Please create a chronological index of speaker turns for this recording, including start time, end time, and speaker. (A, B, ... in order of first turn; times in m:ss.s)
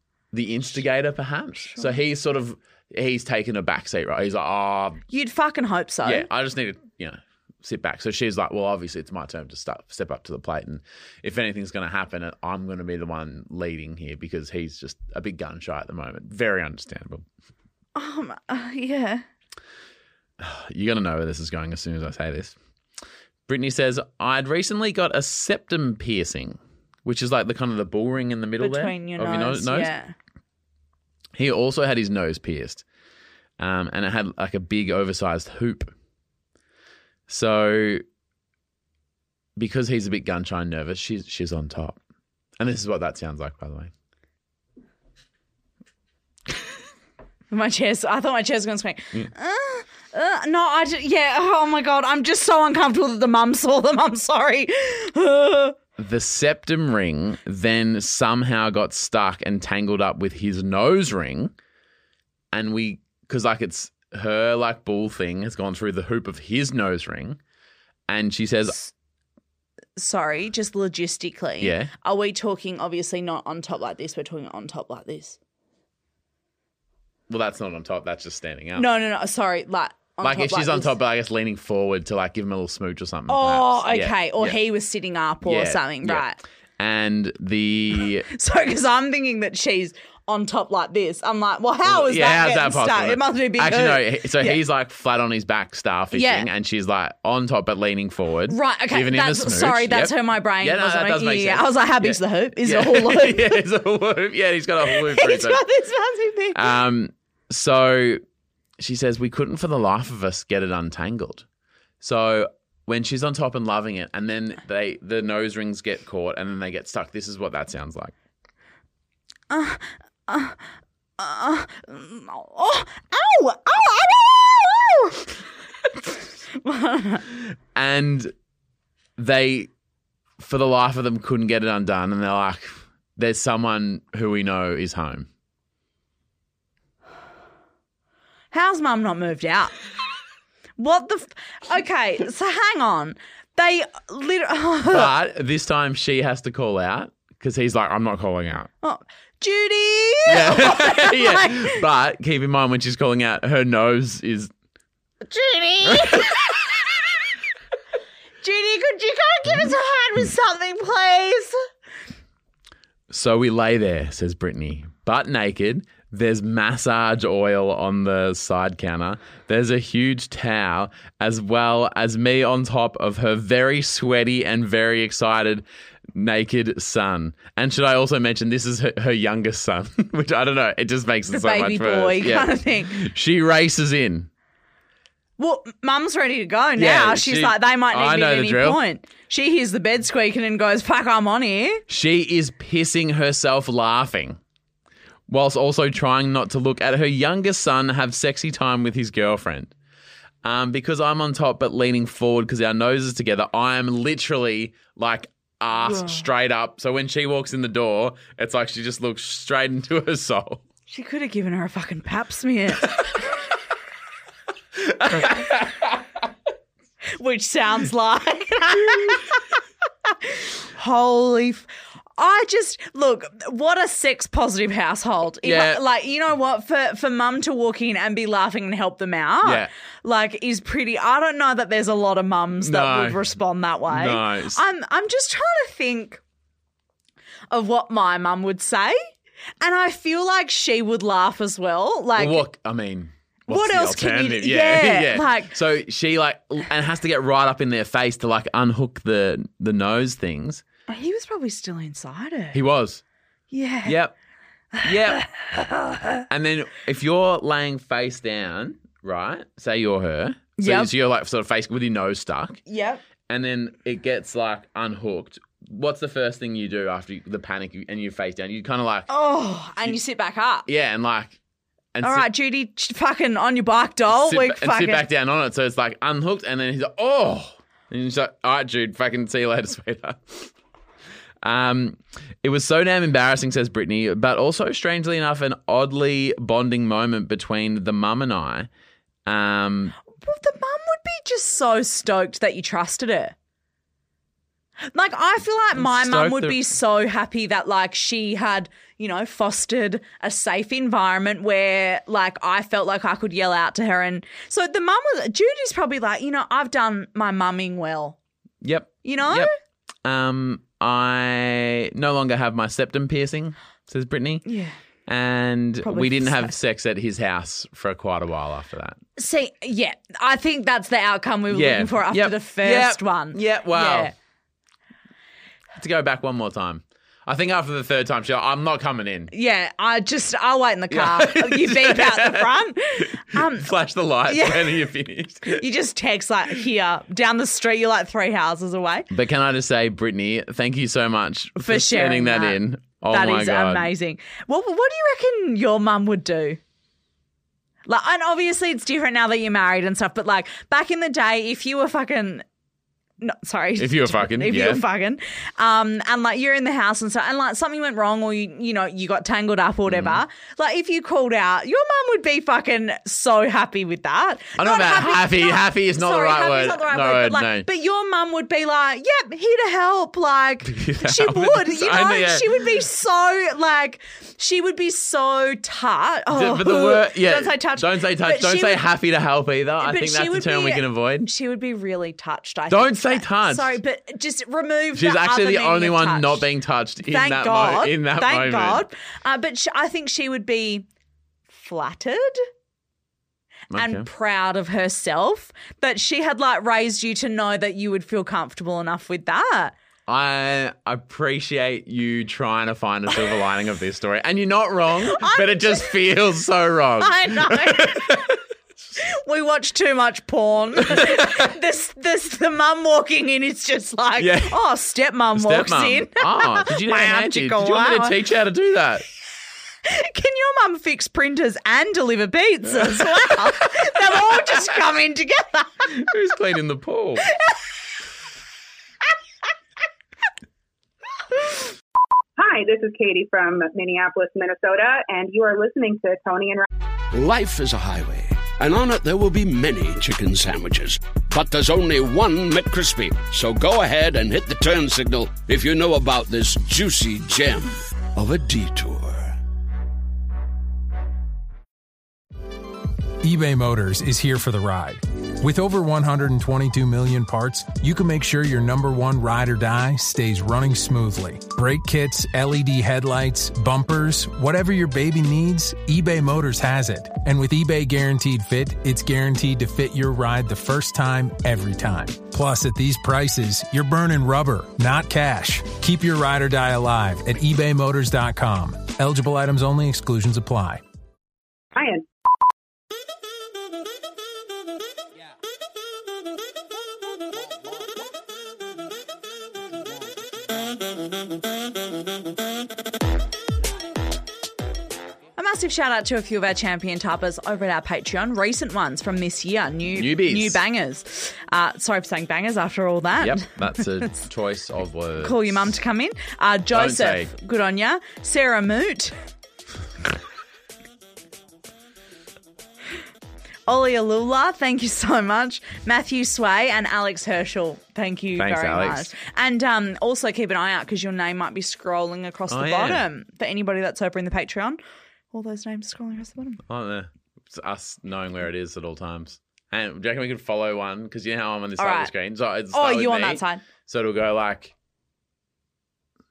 0:00.3-0:05.0 A
0:05.1-0:06.3 B
0:06.0-0:17.2 A
0:18.0-0:19.2 B
0:20.4-0:22.6 A
0:23.5-0:29.9 A
0:28.6-0:30.1 B
0:31.4-0:32.8 A
0:33.6-0:35.9 A
0:37.3-0:38.0 A
0:39.6-0:42.0 A
0:42.6-0:43.9 A
0:47.5-0:55.8 B
0:56.0-1:01.5 A
1:02.5-1:07.4 A
1:08.1-1:08.8 A
1:10.0-1:15.4 B
1:11.6-1:11.9 A
1:17.3-1:18.9 A
1:18.8-1:21.0 B
1:20.2-1:24.6 A
1:23.3-1:26.4 B
1:25.4-1:26.3 A
1:26.8-1:28.3 A
1:28.2-1:34.6 B
1:31.8-1:45.6 A
1:36.1-1:36.5 B
1:38.5-1:43.6 B
1:44.8-1:46.8 B
1:46.5-1:48.2 A
1:48.8-1:51.4 A
1:52.0-1:58.1 A
1:59.5-2:00.6 B
2:01.2-2:05.3 B
2:06.6-2:07.3 B
2:07.8-2:08.3 A
2:09.2-2:09.7 A
2:10.4-2:15.3 A
2:18.5-2:19.8 B
2:20.8-2:25.1 B
2:24.9-2:28.7 A
2:28.8-2:31.8 B
2:30.3-2:34.5 A
2:35.2-2:36.4 B
2:35.9-2:36.2 A
2:38.4-2:41.6 B
2:43.1-2:55.6 A
2:56.2-3:04.3 A
3:01.3-3:03.0 B
3:05.4-3:11.8 B
3:06.8-3:08.8 A
3:11.9-3:14.4 A
3:15.3-3:19.7 A
3:20.4-3:30.6 A
3:30.9-3:33.0 B
3:34.8-3:36.0 A
3:37.2-3:39.4 B
3:40.2-3:56.2 B
3:45.4-3:45.8 A
3:49.4-3:49.7 A
3:52.6-3:53.2 A
3:53.9-3:54.6 A
3:57.5-3:59.0 B
3:59.6-4:02.4 B
4:02.2-4:10.6 A
4:03.5-4:05.5 B
4:10.9-4:12.6 B
4:12.5-4:13.0 A
4:13.5-4:14.0 B
4:13.8-4:14.1 A
4:14.7-4:16.2 B
4:14.8-4:15.3 A
4:16.3-4:22.6 A
4:20.6-4:20.9 B
4:22.7-4:23.0 B
4:23.3-4:29.1 A
4:29.1-4:30.7 B
4:30.7-4:31.4 A
4:32.0-4:32.3 A
4:32.0-4:35.0 B
4:34.1-4:40.5 A
4:41.4-4:48.7 A
4:49.3-4:50.0 A
4:50.2-4:53.4 B
4:54.9-5:08.2 B
4:55.8-4:56.6 A
5:08.6-5:09.5 A
5:09.0-5:09.5 B
5:10.0-5:14.5 A
5:14.4-5:14.8 B
5:15.1-5:19.0 A
5:15.8-5:16.5 B
5:19.2-5:24.1 B
5:21.5-5:24.1 A
5:25.8-5:29.3 A
5:29.3-5:33.7 B
5:30.9-5:35.6 A
5:34.3-5:34.9 B
5:35.4-5:39.1 B
5:39.1-5:43.9 A
5:41.6-5:42.6 B
5:43.1-5:46.6 B
5:47.9-5:52.4 B
5:53.2-6:18.8 B
5:53.8-5:54.8 A
5:59.9-6:00.2 A
6:04.6-6:07.7 A
6:10.6-6:12.6 A
6:16.3-6:21.3 A
6:19.8-6:26.4 B
6:22.7-6:23.8 A
6:24.9-6:28.8 A
6:27.1-6:30.9 B
6:31.5-6:32.5 B
6:33.7-6:34.1 A
6:33.8-6:39.7 B
6:40.1-6:48.4 A
6:45.1-6:46.0 B
6:47.0-6:48.3 B
6:49.0-6:58.2 B
6:50.8-6:51.5 A
6:54.2-6:54.6 A
6:55.4-6:59.0 A
6:59.8-7:06.1 B
7:02.8-7:03.7 A
7:05.9-7:07.3 A
7:07.3-7:07.6 B
7:12.4-7:16.7 C
7:17.1-7:29.4 D
7:33.2-8:00.8 E
8:01.8-8:02.0 C
8:15.4-8:24.1 B
8:20.0-8:20.6 A
8:23.2-8:25.7 A
8:25.2-8:29.2 B
8:26.7-8:27.3 A
8:33.7-8:44.8 B
8:38.4-8:39.1 A
8:42.5-8:43.1 A
8:45.3-8:46.6 B
8:46.7-8:54.7 A
8:51.8-8:52.1 B
8:52.7-8:53.6 B